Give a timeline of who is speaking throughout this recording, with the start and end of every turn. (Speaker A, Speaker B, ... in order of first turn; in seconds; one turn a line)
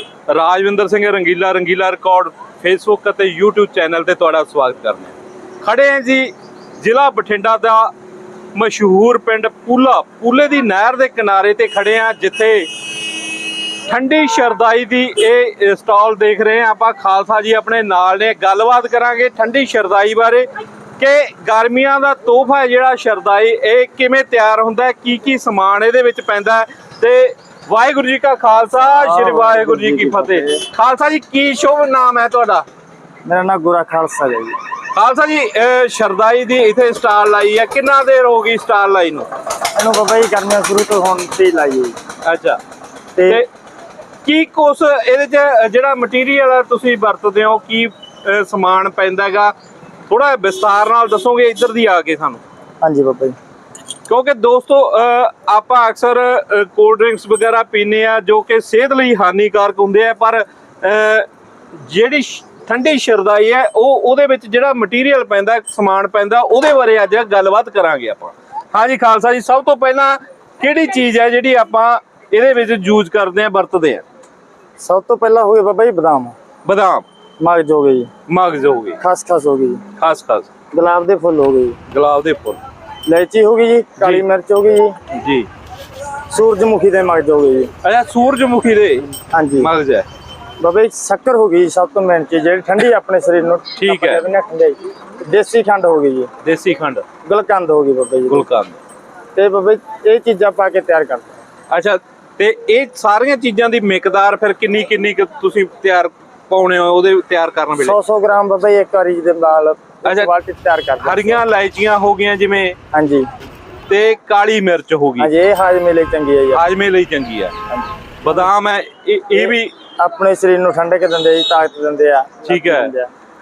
Speaker A: 0.3-7.9
Speaker A: 8.5-12.7
Speaker A: 13.4-20.5
Speaker A: 21.0-32.7
Speaker B: 28.9-30.6
Speaker B: 33.2-34.6
Speaker A: 34.9-39.3
Speaker B: 39.8-42.0
Speaker A: 42.2-42.6
Speaker B: 43.2-43.4
Speaker A: 44.2-49.5
Speaker A: 50.1-52.4
Speaker B: 52.8-53.4
Speaker A: 54.1-61.3
Speaker A: 61.8-74.0
Speaker B: 74.8-76.3
Speaker A: 76.6-77.0
Speaker B: 77.4-78.1
Speaker A: 78.3-79.0
Speaker B: 79.0-79.8
Speaker A: 80.0-80.5
Speaker B: 80.7-81.8
Speaker A: 81.9-82.6
Speaker B: 83.0-84.9
Speaker A: 85.1-85.5
Speaker B: 86.3-87.7
Speaker A: 87.8-90.0
Speaker B: 89.3-89.7
Speaker B: 90.6-96.3
Speaker A: 93.8-94.2
Speaker A: 96.4-97.0
Speaker B: 97.2-98.5
Speaker A: 98.3-98.8
Speaker B: 99.4-101.4
Speaker A: 101.7-108.0
Speaker B: 107.8-111.4
Speaker A: 110.0-110.3
Speaker A: 111.0-112.8
Speaker B: 112.9-113.3
Speaker A: 113.9-115.3
Speaker B: 115.2-116.6
Speaker A: 116.5-117.5
Speaker B: 117.7-118.5
Speaker A: 118.2-119.8
Speaker B: 119.3-123.1
Speaker A: 122.4-122.9